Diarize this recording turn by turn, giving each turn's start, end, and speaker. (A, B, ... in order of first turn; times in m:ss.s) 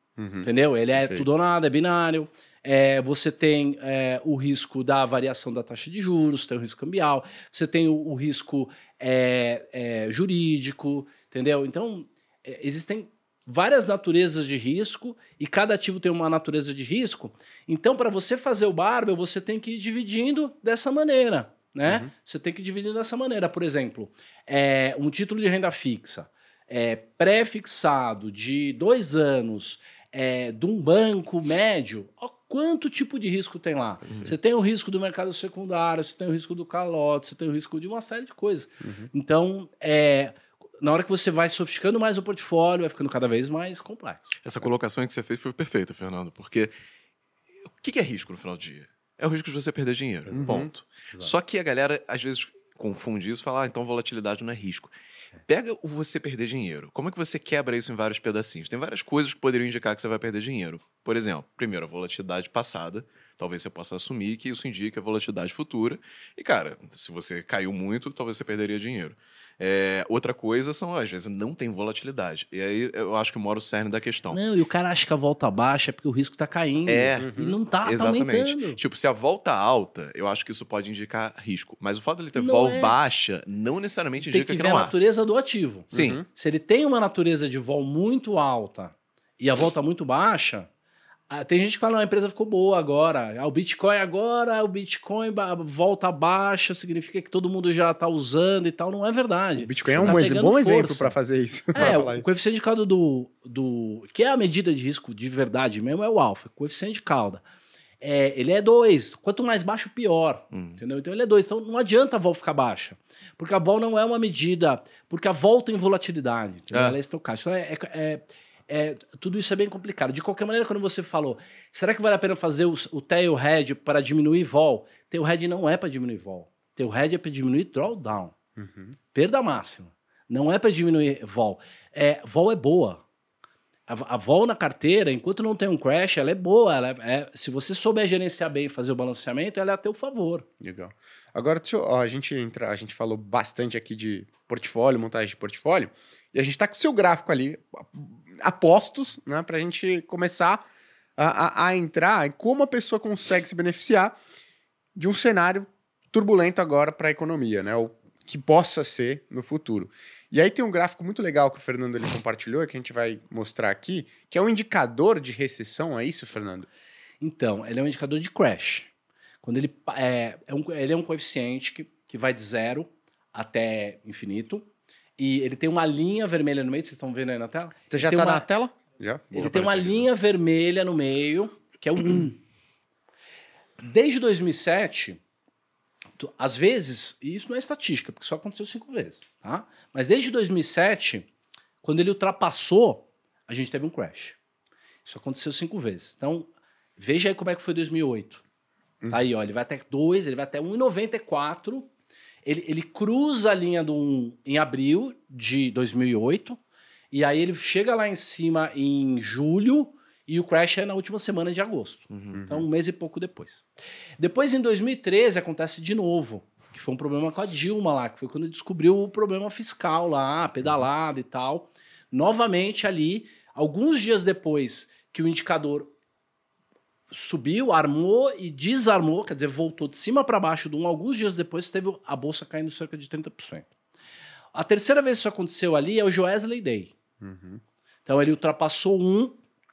0:00.2-0:00.5 A
0:00.4-0:44.3 B
0:01.0-0:01.2 A
0:38.8-0:39.1 A
0:44.4-0:46.7 C
0:47.8-0:54.9 C
0:50.3-0:50.7 A
0:55.4-1:14.4 C
1:14.3-1:18.8 B
1:16.8-1:24.9 C
1:17.2-1:17.6 A
1:22.4-1:22.9 B
1:24.2-1:30.7 B
1:25.9-1:26.2 C
1:25.9-1:26.2 A
1:31.3-1:41.1 B
1:39.6-1:42.2 A
1:41.7-1:47.4 B
1:48.0-2:08.3 B
1:50.5-1:50.8 C
1:56.7-1:57.0 C
2:08.6-2:08.9 A
2:09.1-2:13.0 B
2:13.9-2:20.4 B
2:20.6-2:30.6 A
2:31.2-2:34.2 A
2:35.0-2:46.7 A
2:47.2-2:48.9 B
2:49.4-2:54.6 B
2:55.2-2:58.4 B
2:57.9-2:59.5 A
2:59.3-3:00.0 C
2:59.3-3:02.4 B
3:03.8-3:05.2 B
3:06.2-3:11.3 B
3:11.8-3:14.4 B
3:15.0-3:18.4 B
3:19.1-3:21.9 B
3:22.4-3:26.6 B
3:27.1-3:33.6 B
3:32.1-3:32.4 C
3:32.3-3:32.7 A
3:34.2-3:45.9 B
3:47.1-3:53.7 B
3:54.5-3:56.9 B
3:57.2-3:57.6 A
3:58.0-3:59.4 B